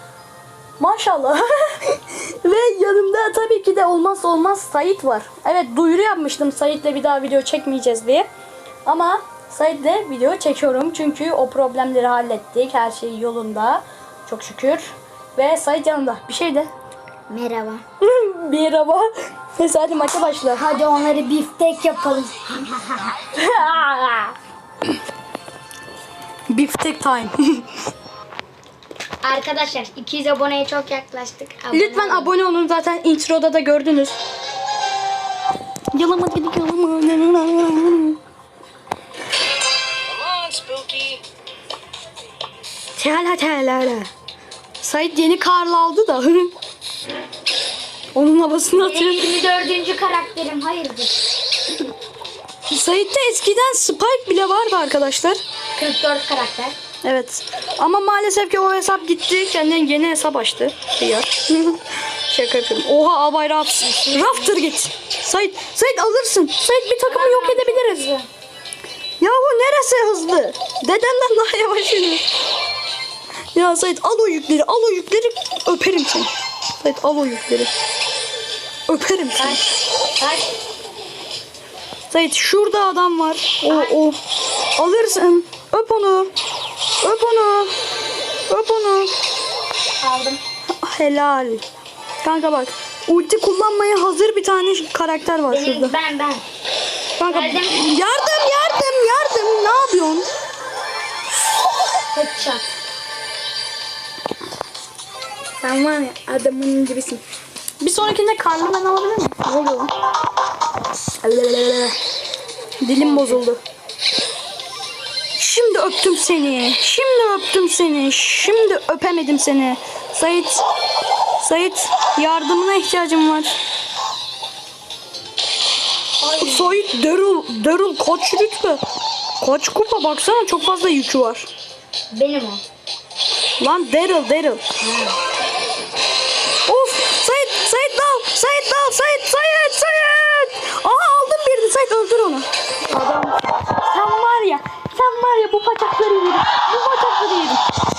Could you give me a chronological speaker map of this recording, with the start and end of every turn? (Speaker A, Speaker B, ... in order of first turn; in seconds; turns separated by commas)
Speaker A: 0.8-8.3, Speaker A: 8.8-16.7, Speaker B: 17.3-17.8, Speaker A: 18.0-20.6, Speaker B: 20.5-23.2, Speaker A: 23.3-24.3, Speaker A: 26.5-27.6, Speaker B: 29.2-32.3, Speaker A: 31.7-34.2, Speaker A: 35.9-38.2, Speaker A: 40.5-41.1, Speaker A: 43.0-44.1, Speaker A: 44.8-46.5, Speaker A: 48.1-49.3, Speaker B: 48.7-51.2, Speaker A: 52.7-55.4, Speaker B: 55.8-56.8, Speaker A: 57.0-68.0, Speaker B: 63.8-64.6, Speaker B: 67.1-68.3, Speaker A: 69.2-72.2, Speaker A: 73.5-77.7, Speaker A: 78.9-79.6, Speaker B: 79.4-80.5, Speaker A: 82.1-84.2, Speaker B: 83.7-83.9, Speaker A: 84.8-86.3, Speaker A: 87.0-87.7, Speaker A: 88.5-89.1, Speaker B: 90.0-90.4, Speaker A: 90.8-91.6, Speaker A: 92.2-96.0, Speaker B: 95.5-96.4, Speaker A: 97.2-100.3, Speaker B: 97.3-97.8, Speaker B: 102.1-102.6, Speaker A: 105.6-107.2, Speaker A: 107.8-109.9, Speaker A: 111.2-112.0, Speaker A: 112.8-113.6, Speaker B: 113.0-113.4, Speaker A: 115.4-120.6, Speaker A: 121.4-123.5, Speaker B: 126.2-126.8, Speaker A: 126.4-128.8, Speaker A: 129.4-131.5, Speaker B: 132.1-132.6, Speaker A: 133.6-134.6, Speaker B: 134.8-135.2, Speaker A: 136.7-142.5, Speaker B: 142.9-143.4, Speaker A: 143.7-147.6